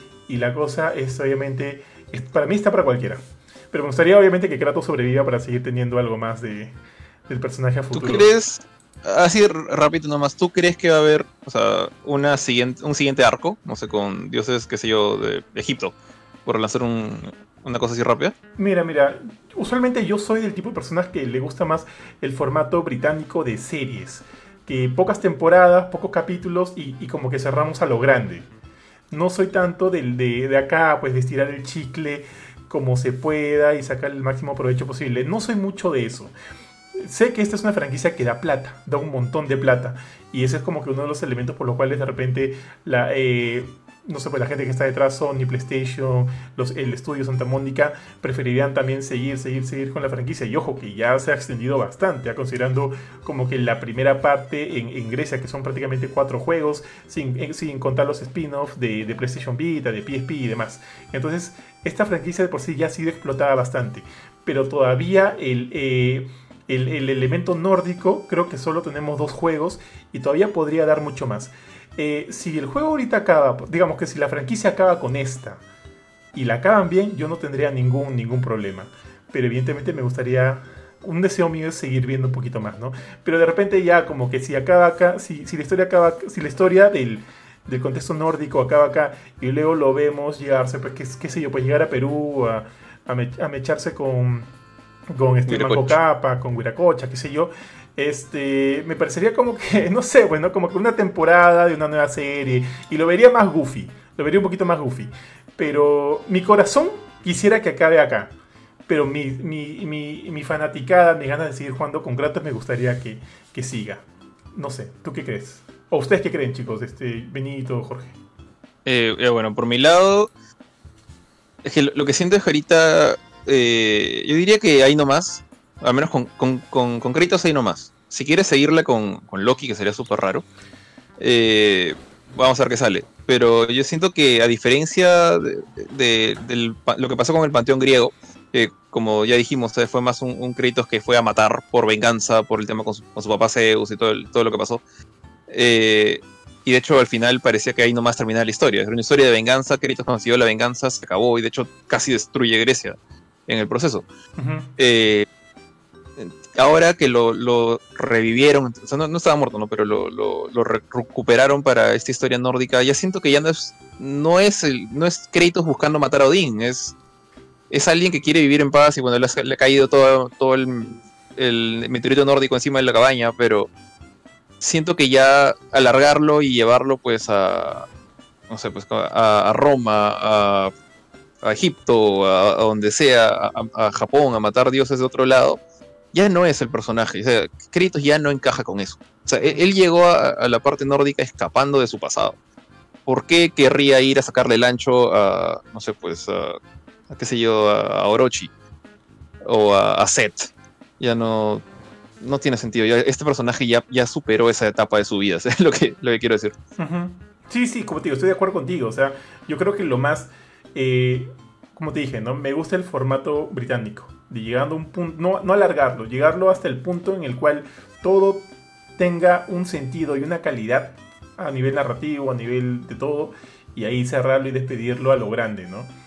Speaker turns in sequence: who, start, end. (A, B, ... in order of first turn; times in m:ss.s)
0:00.3-0:06.8 A
0:07.3-0:08.3 A
0:07.9-0:16.0 B
0:16.5-0:18.4 B
0:18.6-0:28.5 A
0:29.1-0:36.3 A
0:37.0-1:15.6 A
1:16.4-1:34.5 A
1:35.1-1:48.3 A
1:35.5-1:36.0 B
1:48.9-1:54.0 A
1:54.6-1:58.2 A
1:58.9-2:00.3 B
2:01.6-2:10.4 B
2:11.2-2:24.8 B
2:25.5-2:34.1 B
2:34.4-2:34.7 A
2:34.8-2:35.3 B
2:36.2-2:47.0 B
2:47.7-2:53.7 B
2:54.6-2:57.9 B
2:58.5-3:00.7 B
3:01.4-3:05.6 B
3:06.1-3:12.4 B
3:13.1-3:16.6 B
3:17.1-3:18.5 B
3:19.4-3:21.6 B
3:22.2-3:26.6 B
3:26.8-3:45.9 A